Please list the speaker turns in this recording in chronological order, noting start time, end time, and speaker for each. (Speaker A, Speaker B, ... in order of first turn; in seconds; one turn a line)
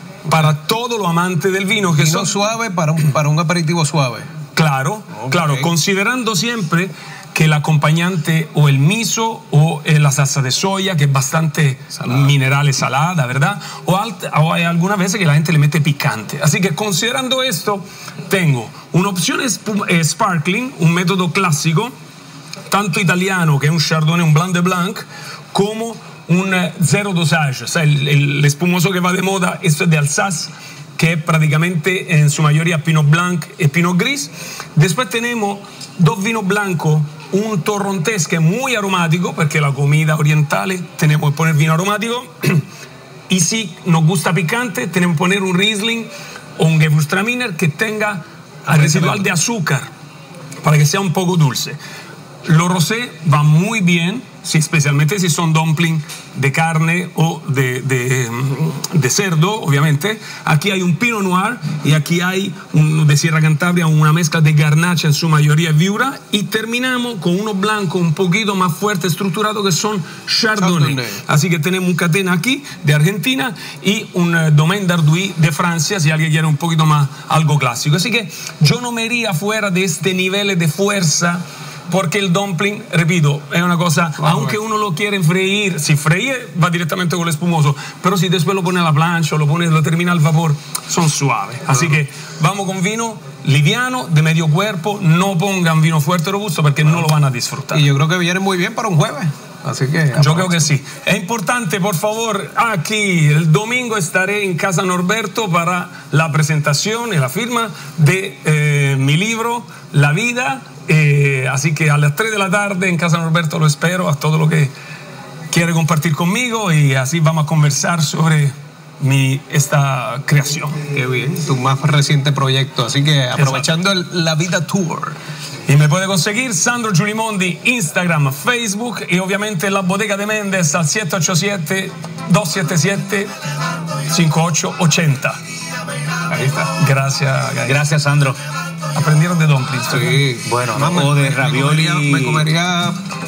Speaker A: 0.2-2.4
Speaker B: 1.9-4.3
Speaker A: 4.5-21.9
Speaker B: 5.2-5.7
Speaker B: 12.0-12.3
Speaker A: 22.7-42.6
Speaker A: 43.3-49.9
Speaker B: 48.7-49.2
Speaker A: 50.6-51.8
Speaker A: 52.4-97.9
Speaker B: 70.6-71.2
Speaker B: 84.2-84.6
Speaker B: 97.7-100.7
Speaker A: 100.1-114.7
Speaker A: 115.5-120.8
Speaker B: 120.9-125.2
Speaker A: 123.3-123.7
Speaker A: 125.7-133.3
Speaker A: 134.1-135.4
Speaker B: 136.3-136.7
Speaker A: 136.7-137.8
Speaker C: 137.6-138.4
Speaker A: 138.9-140.2
Speaker B: 139.9-143.0
Speaker C: 140.4-142.5